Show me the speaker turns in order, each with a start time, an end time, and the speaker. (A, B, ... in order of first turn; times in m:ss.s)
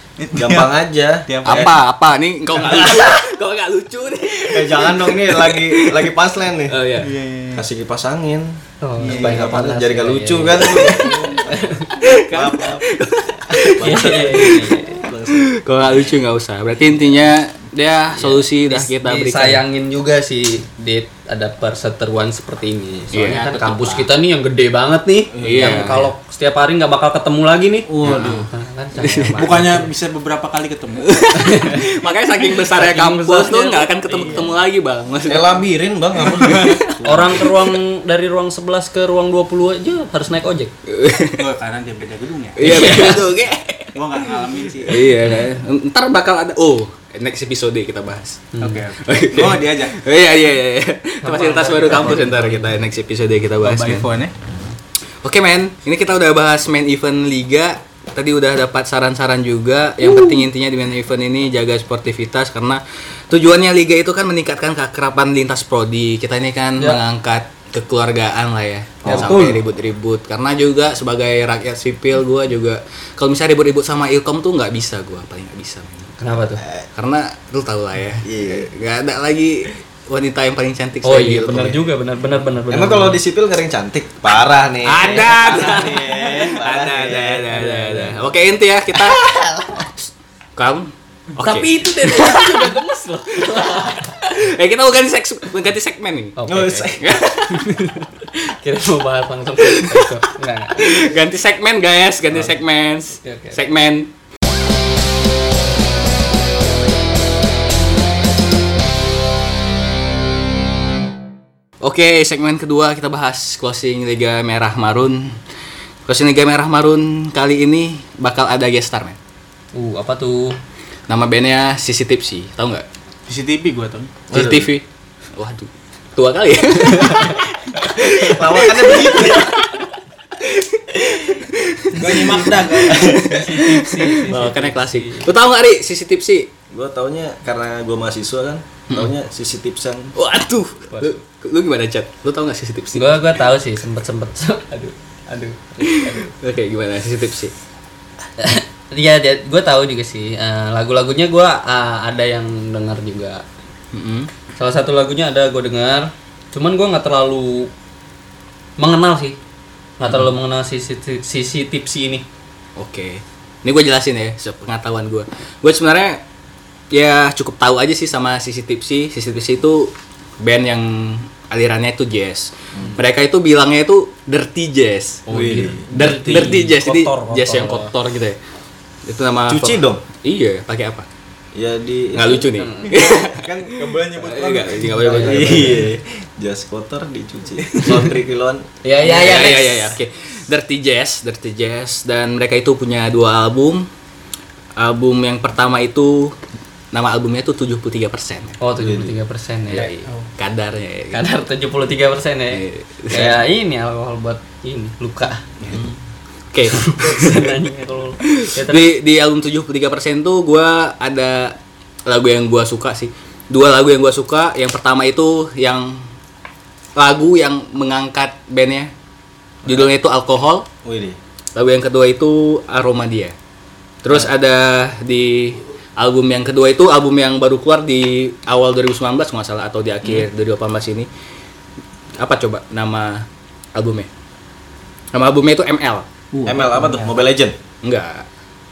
0:00.2-0:01.8 A
0:00.3-0:01.7 B
0:01.4-0:06.1 C
0:04.5-0:06.8 B
0:06.6-0:07.1 C
0:07.0-0:07.6 A
0:07.5-0:12.9 B
0:08.8-0:11.9 D
0:09.0-0:09.5 A
0:10.6-0:11.4 C
0:12.0-0:14.8 C
0:13.4-0:15.5 B
0:13.8-0:15.0 D
0:15.3-0:19.6 C
0:18.1-0:29.9 D
0:23.1-0:24.0 C
0:23.3-0:23.9 A
0:25.3-0:25.9 B
0:25.4-0:26.1 C
0:27.9-0:28.4 A
0:28.0-0:28.3 C
0:29.0-0:29.8 C
0:29.4-0:31.2 A
0:31.0-0:35.7 C
0:31.4-0:31.8 D
0:32.6-0:34.4 D
0:34.2-0:34.5 B
0:35.2-0:37.5 B
0:36.2-0:37.5 C
0:37.0-0:40.7 D
0:40.9-0:41.4 C
0:41.3-0:43.1 A
0:42.6-0:44.3 C
0:42.6-0:43.2 D
0:43.9-0:45.1 A
0:44.8-0:54.1 C
0:48.5-0:48.8 D
0:48.6-0:50.0 A
0:51.2-0:52.7 D
0:51.3-0:52.2 A
0:53.6-0:54.3 A
0:55.2-1:16.1 C
1:09.0-1:09.6 B
1:09.1-1:09.4 D
1:16.2-1:16.6 D
1:16.6-1:16.8 B
1:16.9-1:21.8 C
1:18.2-1:18.7 B
1:21.0-1:23.2 D
1:22.7-1:27.5 B
1:24.8-1:29.5 C
1:27.5-1:28.3 D
1:29.1-1:29.8 B
1:30.6-1:38.4 C
1:31.4-1:34.2 D
1:36.4-1:36.9 D
1:36.4-1:37.2 B
1:37.5-1:38.1 D
1:38.6-1:41.0 D
1:39.6-1:44.1 C
1:43.2-1:43.6 D
1:51.8-1:55.4 C
1:56.0-1:59.2 C
1:59.7-2:00.6 D
2:01.1-2:02.8 C
2:03.3-2:04.2 A
2:04.3-2:04.7 B
2:04.3-2:09.8 C
2:08.1-2:09.6 B
2:10.4-2:16.5 C
2:11.9-2:14.3 A
2:13.0-2:15.3 D
2:16.7-2:20.1 B
2:20.1-2:23.3 C
2:22.9-2:26.3 D
2:25.8-2:27.5 C
2:28.4-2:33.4 D
2:33.9-2:34.3 C
2:34.6-2:37.7 D
2:38.8-2:39.4 D
2:40.0-2:42.2 D
2:42.8-2:46.2 C
2:46.9-2:58.4 C
2:55.3-2:55.8 B
2:55.3-2:57.9 D
2:59.0-3:01.0 C
2:59.5-3:00.0 B
3:01.5-3:08.7 B
3:02.1-3:05.9 C
3:02.6-3:02.9 D
3:04.8-3:05.9 D
3:08.8-3:09.9 D
3:09.0-3:13.9 C
3:14.8-3:16.3 C
3:16.9-3:18.6 C
3:18.6-3:20.1 D
3:18.8-3:19.1 B
3:19.7-3:21.2 C
3:21.1-3:25.4 D
3:22.5-3:23.4 C
3:25.6-3:25.9 B
3:25.7-3:26.0 C
3:26.5-3:27.5 C
3:26.8-3:28.9 D
3:28.2-3:36.1 C
3:37.0-3:38.9 C
3:39.6-3:40.7 C
3:40.8-3:41.2 B
3:41.5-3:43.3 C
3:44.0-3:51.1 C
3:52.2-3:54.1 C
3:55.1-3:56.1 C
3:56.3-3:57.0 A
3:56.4-3:57.5 B
3:56.5-3:57.0 D
3:57.8-3:58.2 C